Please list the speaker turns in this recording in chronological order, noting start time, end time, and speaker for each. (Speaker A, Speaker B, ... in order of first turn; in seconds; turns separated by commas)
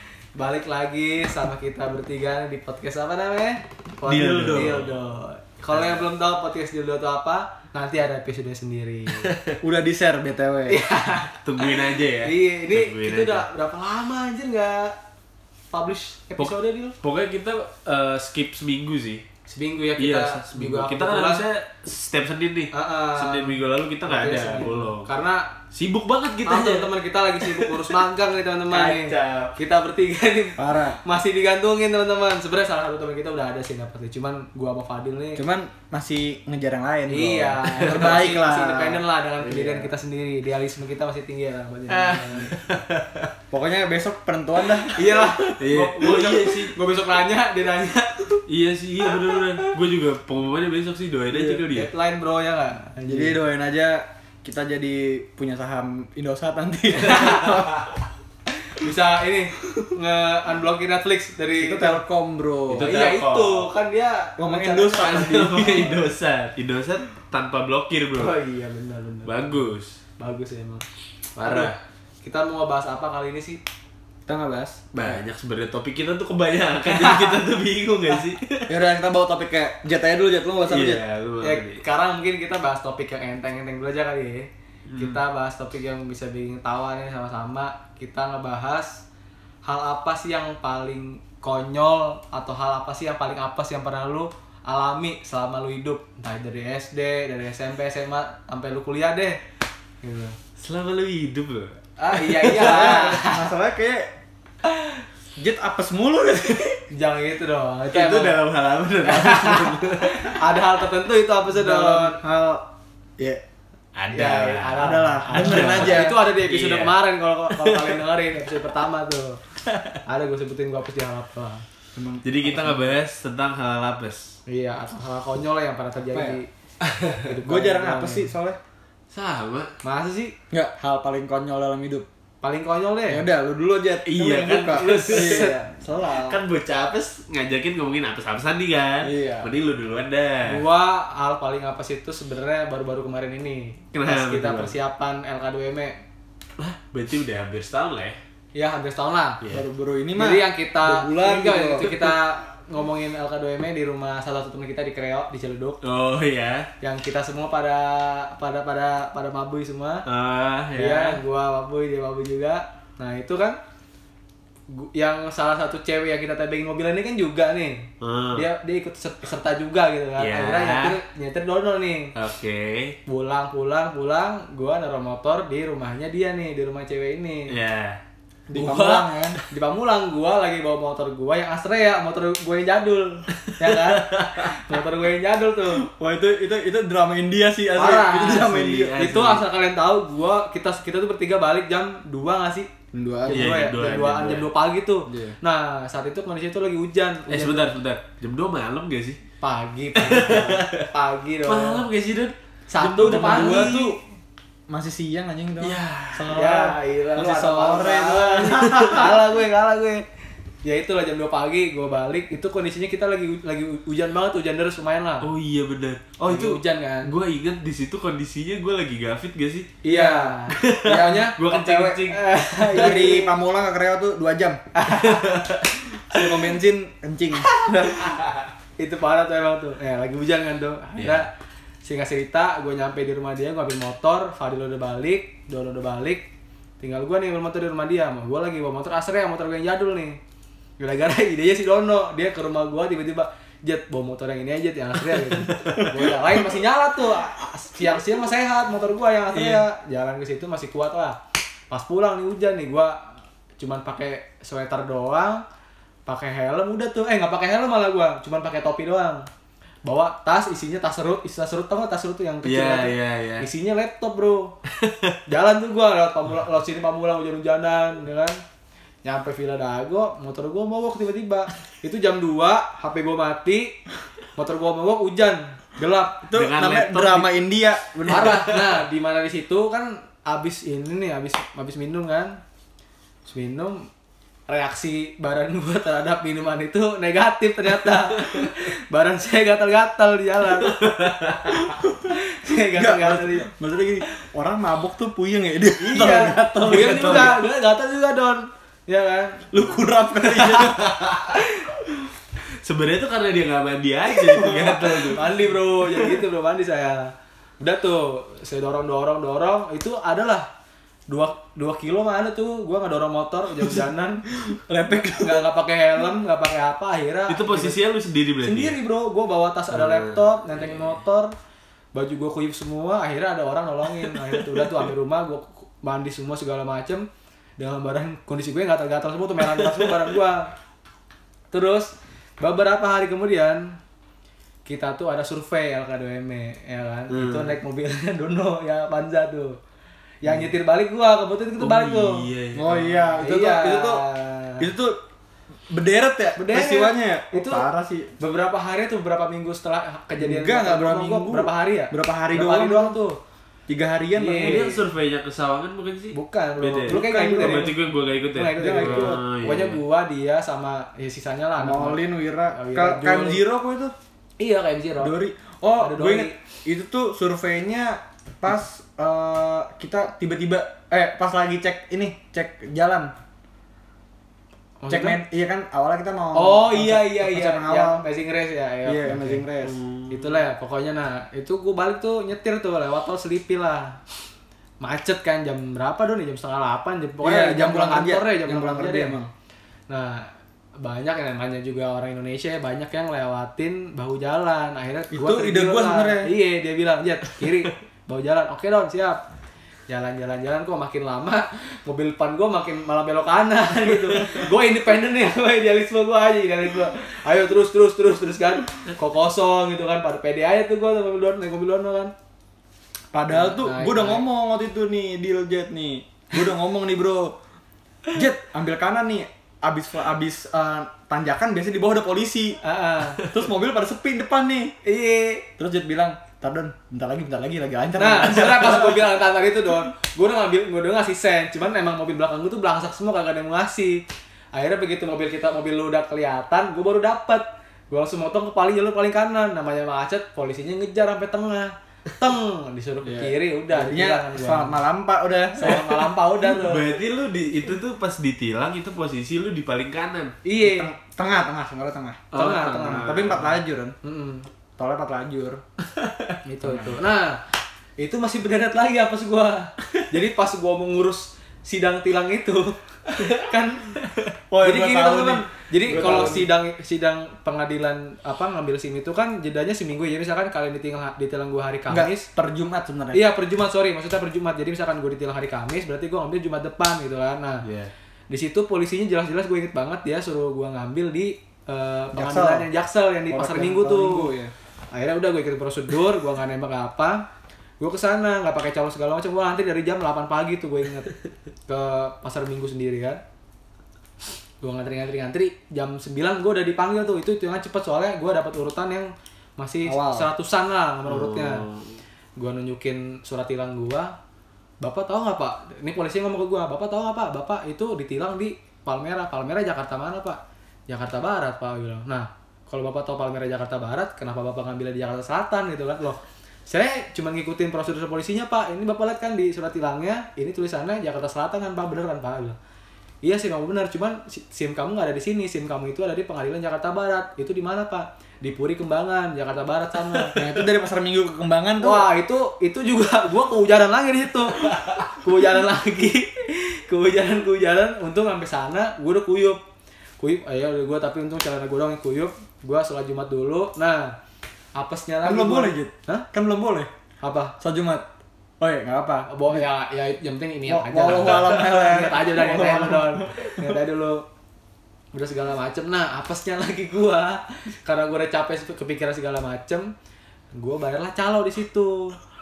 Speaker A: 0.3-9.3, Speaker B: 4.0-4.9, Speaker B: 5.7-6.0, Speaker B: 9.2-9.5, Speaker C: 9.6-10.8, Speaker A: 10.7-14.9, Speaker B: 11.4-13.4, Speaker A: 15.7-16.9, Speaker B: 16.4-19.2, Speaker A: 19.5-21.4, Speaker B: 20.0-25.1, Speaker A: 22.7-25.5, Speaker B: 25.7-27.9, Speaker A: 26.4-35.4, Speaker B: 28.7-29.5, Speaker C: 30.6-31.0, Speaker C: 35.4-39.9, Speaker A: 37.1-42.5, Speaker B: 37.8-38.1, Speaker B: 41.9-43.3, Speaker C: 43.5-45.3, Speaker A: 44.9-48.4, Speaker B: 45.1-46.7, Speaker B: 48.5-51.9, Speaker A: 51.4-53.4, Speaker C: 53.1-57.9, Speaker A: 57.1-57.4, Speaker A: 58.7-62.0, Speaker C: 61.6-62.9, Speaker B: 62.7-63.7, Speaker A: 62.8-65.8, Speaker C: 64.4-66.0, Speaker B: 65.0-68.3, Speaker A: 68.1-69.7, Speaker B: 69.2-70.0, Speaker A: 70.2-70.8, Speaker B: 71.3-71.8, Speaker A: 71.4-73.6, Speaker C: 74.3-75.2, Speaker B: 74.9-78.7, Speaker A: 76.9-77.4, Speaker C: 78.7-81.0, Speaker B: 80.7-81.8, Speaker A: 81.4-89.0, Speaker B: 84.9-85.2, Speaker A: 89.6-99.4, Speaker A: 100.0-100.4, Speaker B: 100.6-103.2, Speaker A: 102.0-103.5, Speaker C: 102.5-104.1, Speaker C: 105.4-106.8, Speaker A: 106.9-108.4, Speaker B: 107.9-110.4, Speaker A: 109.0-112.2, Speaker C: 111.5-112.7, Speaker B: 113.9-117.0, Speaker A: 114.1-119.4, Speaker C: 114.8-116.2, Speaker B: 117.5-118.0, Speaker A: 120.0-121.6, Speaker C: 121.9-122.8, Speaker B: 122.2-124.3, Speaker A: 124.5-126.5, Speaker C: 126.1-126.4, Speaker A: 127.1-128.3, Speaker C: 127.4-128.6, Speaker B: 129.1-129.7, Speaker A: 129.8-130.3, Speaker C: 130.5-132.0, Speaker A: 132.4-133.2, Speaker C: 133.1-136.4, Speaker B: 134.1-135.5, Speaker A: 134.7-135.6, Speaker B: 136.1-140.6, Speaker C: 139.0-139.5, Speaker A: 140.4-146.0, Speaker B: 143.9-144.8, Speaker B: 146.6-148.2, Speaker A: 148.5-149.4, Speaker C: 149.5-152.2, Speaker A: 150.2-155.8, Speaker B: 155.8-156.7, Speaker A: 156.8-160.1, Speaker B: 160.1-161.2, Speaker A: 160.7-163.6, Speaker A: 164.7-172.1, Speaker B: 168.0-168.4, Speaker B: 170.2-171.0, Speaker B: 172.1-173.0, Speaker A: 173.1-177.5, Speaker B: 177.5-178.0, Speaker C: 178.5-179.4, Speaker A: 178.6-178.8, Speaker B: 178.6-179.4, Speaker A: 179.5-185.9, Speaker B: 183.6-184.6, Speaker C: 185.8-189.0, Speaker A: 187.7-192.7, Speaker B: 188.1-189.4, Speaker C: 192.9-193.6, Speaker A: 193.3-197.7, Speaker B: 193.3-194.5, Speaker C: 195.1-195.3, Speaker B: 197.3-199.2, Speaker A: 199.4-201.8, Speaker B: 200.0-200.8, Speaker B: 201.5-203.8, Speaker A: 202.7-203.9, Speaker C: 203.0-204.0, Speaker C: 204.7-209.2, Speaker B: 205.6-206.4, Speaker A: 206.3-210.0, Speaker B: 208.5-209.0, Speaker A: 210.6-215.3, Speaker B: 215.2-219.8, Speaker A: 216.2-217.1, Speaker A: 219.8-221.4, Speaker C: 219.9-222.0, Speaker B: 220.5-222.2, Speaker A: 222.0-223.3, Speaker C: 222.6-224.6, Speaker A: 224.7-225.4, Speaker B: 224.9-225.7, Speaker C: 226.1-227.8, Speaker B: 227.6-228.5, Speaker A: 228.8-231.3, Speaker B: 231.0-231.2, Speaker A: 231.8-236.3, Speaker A: 236.8-240.2, Speaker A: 240.8-251.2, Speaker B: 249.3-249.6, Speaker A: 251.7-255.4, Speaker A: 256.1-259.3, Speaker A: 259.8-264.6, Speaker B: 262.4-263.4, Speaker B: 264.7-265.2, Speaker A: 265.3-268.4, Speaker A: 269.0-273.8, Speaker A: 274.4-276.3, Speaker C: 276.3-278.4, Speaker B: 276.3-277.3, Speaker B: 278.0-278.6, Speaker A: 278.1-282.4, Speaker A: 283.3-283.9, Speaker A: 284.5-291.3, Speaker B: 290.7-291.5, Speaker C: 291.7-292.1, Speaker A: 292.1-293.5, Speaker C: 292.7-297.4, Speaker A: 295.8-299.5, Speaker B: 296.6-297.4, Speaker C: 299.5-301.0, Speaker B: 302.6-305.3, Speaker C: 304.3-305.1, Speaker A: 304.8-310.4, Speaker A: 311.1-314.2, Speaker C: 314.4-315.5, Speaker A: 315.2-317.8, Speaker B: 317.3-318.8, Speaker A: 318.4-321.3, Speaker B: 319.7-321.0, Speaker A: 321.9-327.1, Speaker B: 324.1-324.4, Speaker A: 327.6-330.5, Speaker A: 331.5-333.8, Speaker A: 334.6-339.6, Speaker B: 337.1-337.6, Speaker A: 340.2-342.2, Speaker B: 341.6-343.1, Speaker C: 342.5-344.0, Speaker A: 343.2-344.7, Speaker C: 344.6-345.0, Speaker C: 345.7-348.1, Speaker A: 346.4-347.6, Speaker A: 348.2-353.2, Speaker C: 350.2-352.9, Speaker C: 353.7-354.8, Speaker A: 354.1-354.8, Speaker B: 354.4-359.8, Speaker A: 356.1-357.7, Speaker C: 356.9-357.7, Speaker A: 358.3-362.0, Speaker C: 358.6-359.2, Speaker C: 361.6-363.9, Speaker A: 362.5-363.4, Speaker A: 364.4-365.1, Speaker C: 365.0-373.1, Speaker A: 365.8-366.3, Speaker A: 374.8-375.2, Speaker C: 374.9-378.0, Speaker A: 376.3-379.5, Speaker C: 378.9-379.8, Speaker B: 379.6-380.4, Speaker A: 380.1-384.0, Speaker A: 384.8-389.1, Speaker C: 387.2-389.3, Speaker A: 389.9-390.3, Speaker A: 390.8-399.2, Speaker C: 395.1-396.3, Speaker A: 399.9-412.1, Speaker C: 413.1-417.4, Speaker A: 413.3-414.2, Speaker C: 418.1-422.6, Speaker A: 422.6-423.2, Speaker C: 423.2-424.7, Speaker A: 424.8-425.4, Speaker C: 425.6-429.1, Speaker A: 428.0-444.8, Speaker C: 443.0-446.1, Speaker A: 445.5-446.9, Speaker B: 446.5-450.4, Speaker A: 450.4-450.9, Speaker C: 450.6-453.9, Speaker A: 452.3-453.2, Speaker B: 452.3-453.5, Speaker A: 454.0-454.5, Speaker C: 454.8-455.6, Speaker B: 456.0-456.2, Speaker A: 456.4-457.4, Speaker C: 456.6-457.0, Speaker A: 458.0-464.0, Speaker C: 464.5-466.5, Speaker A: 464.6-472.3, Speaker C: 471.9-473.2, Speaker A: 473.1-477.6, Speaker B: 477.6-477.9, Speaker A: 478.3-484.3, Speaker C: 482.1-482.7, Speaker C: 483.3-484.5, Speaker A: 484.9-487.2, Speaker A: 487.8-491.1, Speaker A: 491.7-493.2, Speaker A: 494.6-501.7, Speaker C: 499.9-500.3, Speaker B: 501.1-501.9, Speaker A: 502.4-504.1, Speaker A: 504.8-522.6, Speaker A: 523.2-530.4, Speaker C: 530.4-532.1, Speaker A: 531.8-539.6, Speaker A: 540.2-544.2, Speaker A: 544.7-546.3, Speaker C: 545.2-546.9, Speaker A: 547.2-547.5, Speaker C: 547.6-548.0, Speaker C: 548.6-549.6, Speaker A: 549.3-554.2, Speaker C: 550.6-553.5, Speaker A: 555.1-559.9, Speaker A: 560.5-562.2